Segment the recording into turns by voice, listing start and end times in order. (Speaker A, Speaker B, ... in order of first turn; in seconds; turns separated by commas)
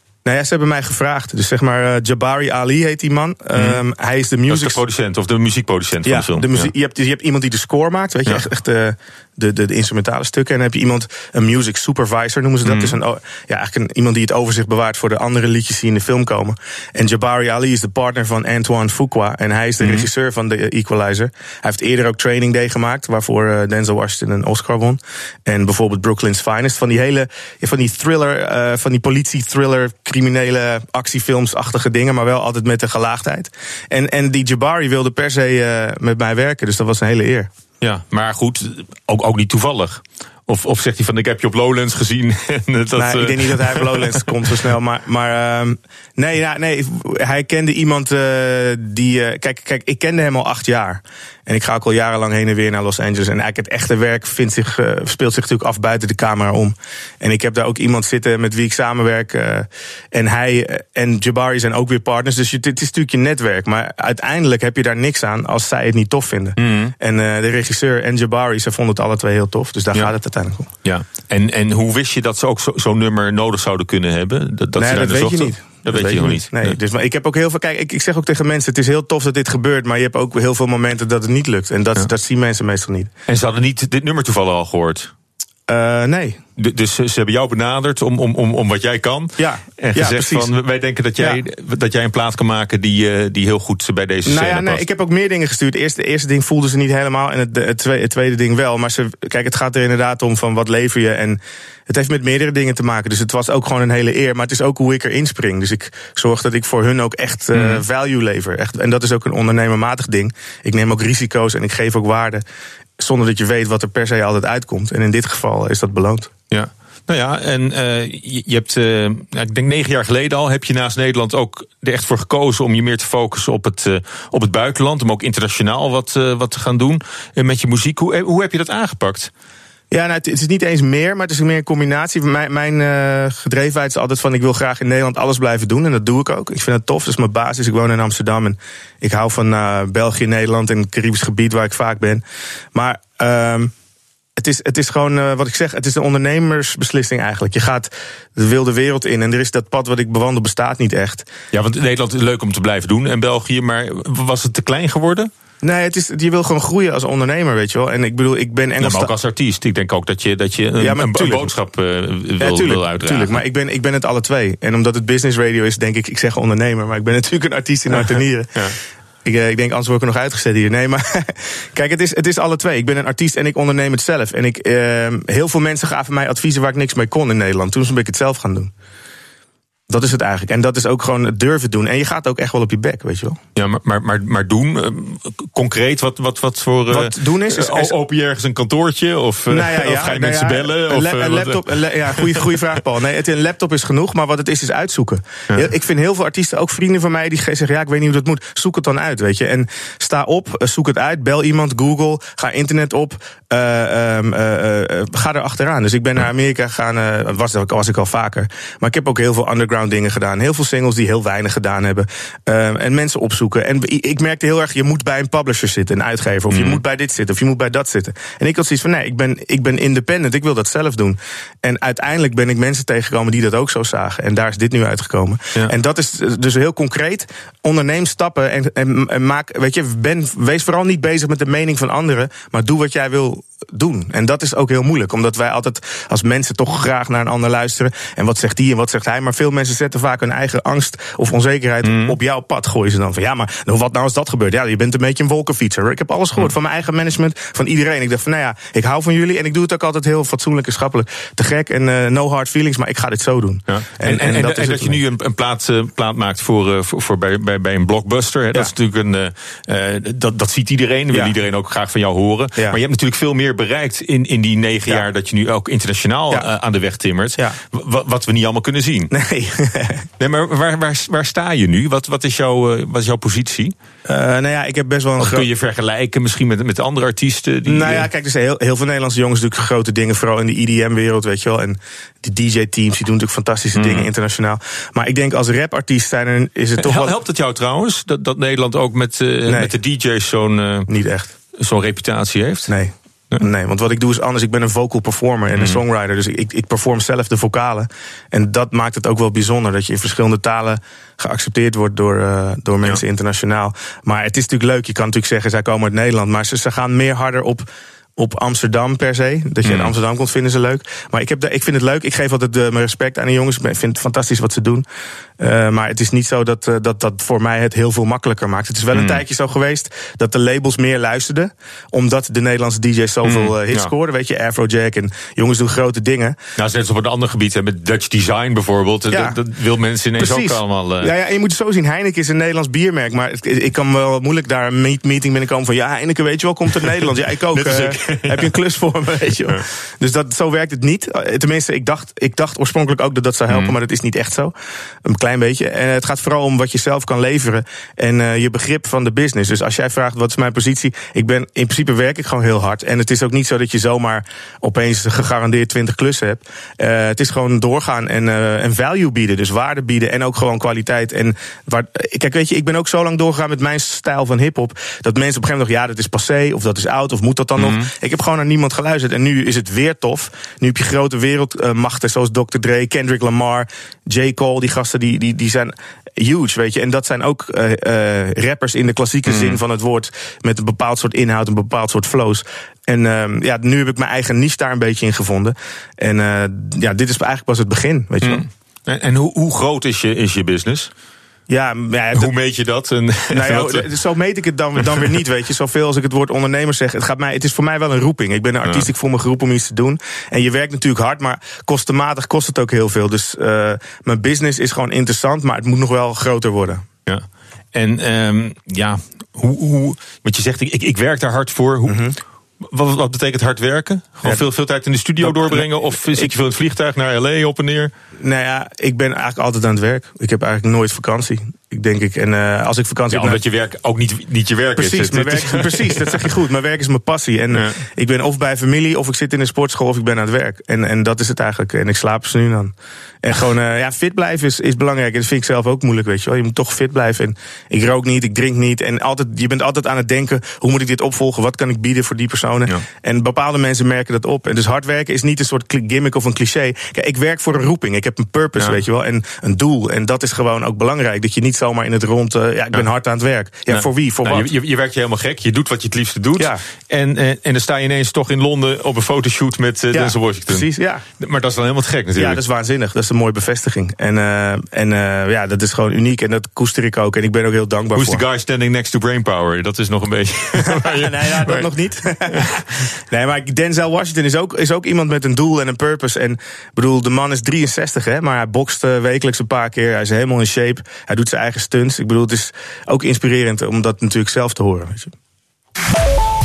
Speaker A: 0.2-4.8, Speaker B: 3.5-3.8, Speaker B: 4.5-6.7, Speaker A: 6.0-37.5, Speaker B: 12.6-13.0, Speaker B: 19.8-20.1, Speaker B: 37.8-44.5, Speaker A: 43.0-70.7, Speaker B: 66.6-66.9, Speaker B: 70.8-76.8, Speaker A: 74.8-83.1, Speaker B: 83.3-85.1, Speaker A: 85.7-86.4, Speaker B: 86.6-94.8, Speaker A: 89.4-90.5, Speaker A: 94.2-112.4, Speaker B: 107.5-107.8, Speaker A: 113.0-116.3, Speaker B: 116.5-129.3, Speaker A: 129.9-142.2, Speaker A: 142.7-143.7, Speaker A: 144.4-151.3, Speaker B: 151.5-155.3, Speaker A: 155.6-159.1, Speaker B: 158.8-163.4, Speaker A: 160.8-161.5, Speaker A: 162.4-168.6, Speaker B: 167.9-168.8, Speaker A: 169.2-178.7, Speaker A: 179.9-183.4, Speaker B: 183.5-192.7, Speaker A: 186.9-187.9, Speaker A: 189.5-255.0, Speaker B: 216.5-216.8, Speaker B: 241.8-242.2, Speaker B: 253.7-269.1, Speaker A: 269.1-270.0, Speaker B: 270.2-273.7, Speaker A: 274.1-275.4, Speaker B: 275.2-278.1, Speaker A: 277.6-287.1, Speaker B: 283.7-284.1, Speaker B: 286.8-290.9, Speaker A: 289.4-289.7, Speaker A: 290.9-291.3, Speaker B: 291.5-292.7, Speaker A: 292.7-314.8, Speaker B: 295.5-295.8, Speaker B: 309.6-309.9, Speaker A: 315.4-326.4, Speaker B: 318.9-319.2, Speaker B: 323.2-323.9, Speaker B: 326.6-331.1, Speaker A: 329.1-329.4, Speaker A: 330.2-344.5, Speaker B: 337.5-338.5, Speaker B: 343.5-343.7, Speaker A: 345.1-388.4, Speaker B: 367.6-367.9, Speaker B: 379.3-379.6, Speaker B: 388.2-390.9, Speaker A: 391.5-392.3, Speaker B: 392.1-393.9, Speaker A: 393.3-406.8, Speaker B: 394.8-395.2, Speaker B: 398.6-398.9, Speaker B: 407.1-412.0, Speaker A: 411.9-412.1, Speaker B: 412.6-417.9, Speaker A: 415.2-416.3, Speaker A: 418.2-423.4, Speaker B: 423.1-426.3, Speaker A: 424.8-454.5, Speaker B: 427.5-427.8, Speaker B: 453.7-460.7, Speaker A: 459.9-461.0, Speaker B: 461.2-462.4, Speaker A: 462.1-468.2, Speaker B: 467.9-471.7, Speaker A: 470.6-472.5, Speaker B: 472.3-472.6, Speaker A: 473.1-485.1